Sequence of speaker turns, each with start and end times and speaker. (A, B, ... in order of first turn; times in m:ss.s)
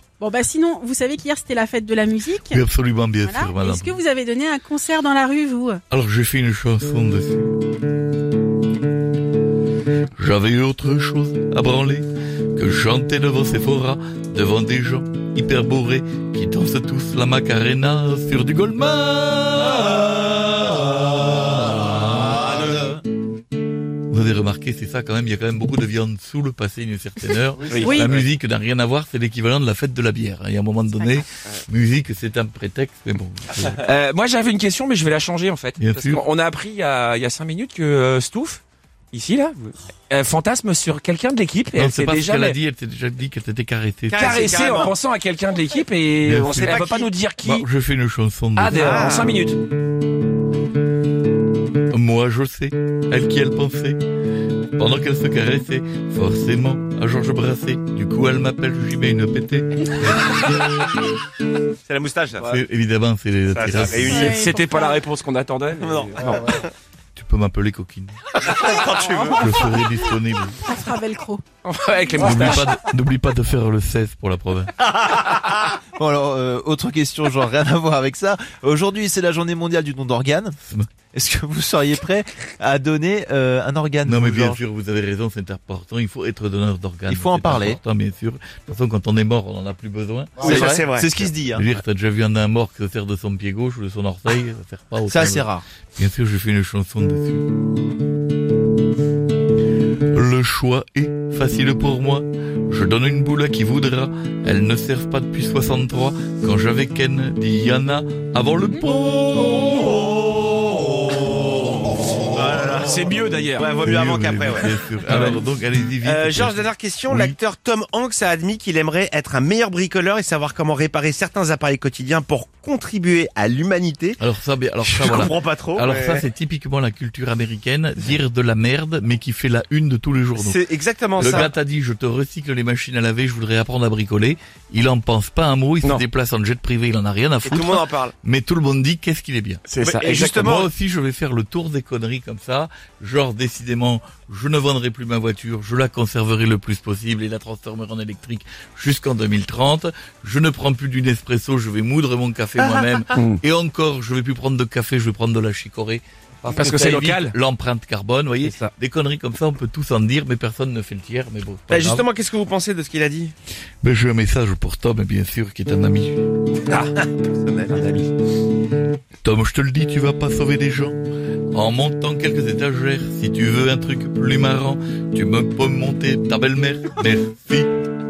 0:00.2-0:05.8 A
0:02.5-0:04.0 B
0:05.9-0:07.5 B
0:10.2-0:22.4 B
0:22.6-0:22.9 C
0:24.1-0:33.9 B
0:27.7-0:28.2 A
0:31.0-0:31.2 A
0:33.8-0:38.6 D
0:35.8-0:36.2 B
0:39.1-0:42.6 D
0:41.8-0:44.7 B
0:44.1-0:44.9 E
0:44.2-0:47.7 D
0:46.3-0:46.7 B
0:46.4-0:47.5 E
0:47.5-0:49.1 B
0:48.6-0:49.6 D
0:48.7-0:49.4 E
0:51.9-0:54.0 B
0:54.7-1:00.2 B
1:01.9-1:02.6 E
1:02.5-1:04.1 B
1:03.5-1:04.5 E
1:03.9-1:05.1 A
1:04.2-1:05.9 D
1:05.8-1:06.7 E
1:07.2-1:08.3 B
1:08.3-1:09.5 E
1:09.1-1:09.9 A
1:09.4-1:10.7 B
1:10.6-1:11.4 A
1:12.1-1:12.6 D
1:12.2-1:14.8 B
1:12.2-1:12.5 E
1:14.9-1:20.6 C
1:20.7-1:20.9 B
1:21.1-1:24.6 C
1:24.0-1:30.5 B
1:27.1-1:27.8 C
1:30.4-1:31.3 E
1:30.4-1:31.7 C
1:31.5-1:37.5 B
1:35.1-1:35.6 C
1:40.1-1:49.9 B
1:49.8-1:51.0 E
1:52.1-1:55.4 E
1:52.8-1:53.6 D
1:53.8-1:57.4 B
1:55.1-1:55.3 D
1:56.0-2:04.2 E
2:04.2-2:10.6 B
2:04.8-2:06.3 E
2:10.3-2:11.6 E
2:11.2-2:42.1 B
2:17.4-2:18.2 E
2:19.6-2:20.5 D
2:19.8-2:20.7 E
2:32.6-2:33.2 E
2:36.6-2:37.3 D
2:41.7-2:43.3 E
2:43.8-2:46.2 B
2:47.0-2:47.8 E
2:49.2-2:51.0 B
2:51.5-2:57.7 B